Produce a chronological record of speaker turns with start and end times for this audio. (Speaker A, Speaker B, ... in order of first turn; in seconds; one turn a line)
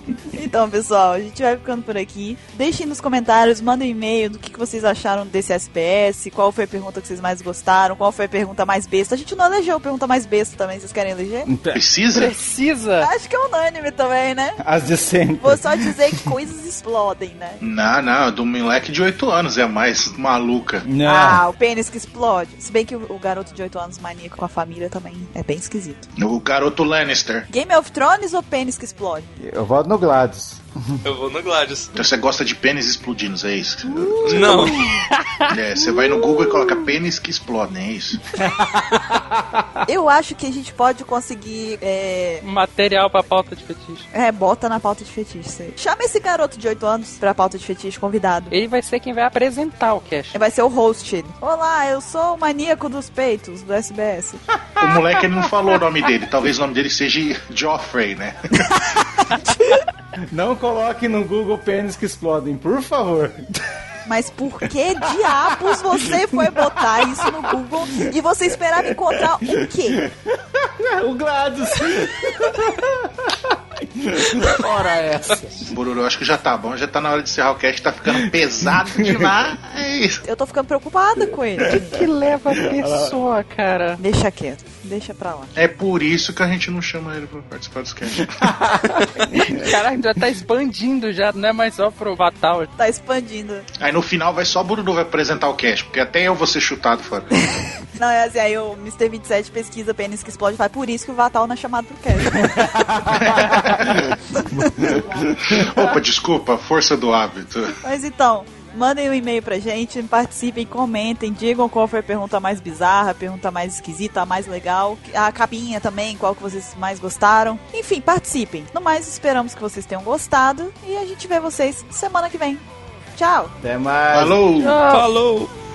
Speaker A: 0.3-11.5
Speaker B: 11.4-11.8
Speaker C: 11.7-12.4
Speaker D: 12.1-13.1
Speaker A: 13.0-14.6
Speaker B: 14.6-15.9
Speaker A: 15.4-17.6
Speaker C: 17.6-20.9
Speaker B: 20.8-21.4
Speaker A: 21.0-26.1
Speaker C: 26.2-27.4
Speaker A: 27.5-29.3
Speaker B: 29.4-31.0
Speaker E: 31.0-31.9
Speaker C: 31.9-34.7
Speaker B: 33.9-35.1
Speaker E: 34.2-34.9
Speaker D: 35.0-35.4
Speaker C: 35.5-38.2
Speaker B: 35.9-36.5
Speaker B: 38.3-39.7
Speaker A: 39.9-42.4
Speaker D: 42.4-44.1
Speaker A: 44.1-48.5
Speaker D: 48.5-50.4
Speaker A: 50.3-54.4
Speaker B: 54.6-55.0
Speaker C: 54.8-58.7
Speaker B: 60.3-63.5
Speaker A: 64.0-70.0
Speaker B: 65.1-67.5
Speaker B: 69.5-75.7
Speaker C: 75.7-80.2
Speaker A: 80.2-82.0
Speaker B: 81.6-82.0
Speaker D: 81.7-84.0
Speaker B: 82.6-83.2
Speaker A: 84.0-85.5
Speaker C: 85.5-88.5
Speaker B: 88.2-89.7
Speaker D: 89.3-92.7
Speaker A: 92.8-93.7
Speaker C: 93.8-97.3
Speaker A: 98.0-103.7
Speaker B: 102.4-105.7
Speaker A: 104.3-105.2
Speaker C: 105.4-107.7
Speaker A: 107.8-122.6
Speaker A: 123.2-123.5
Speaker B: 123.6-124.4
Speaker C: 124.1-124.8
Speaker D: 124.6-125.1
Speaker E: 124.9-125.5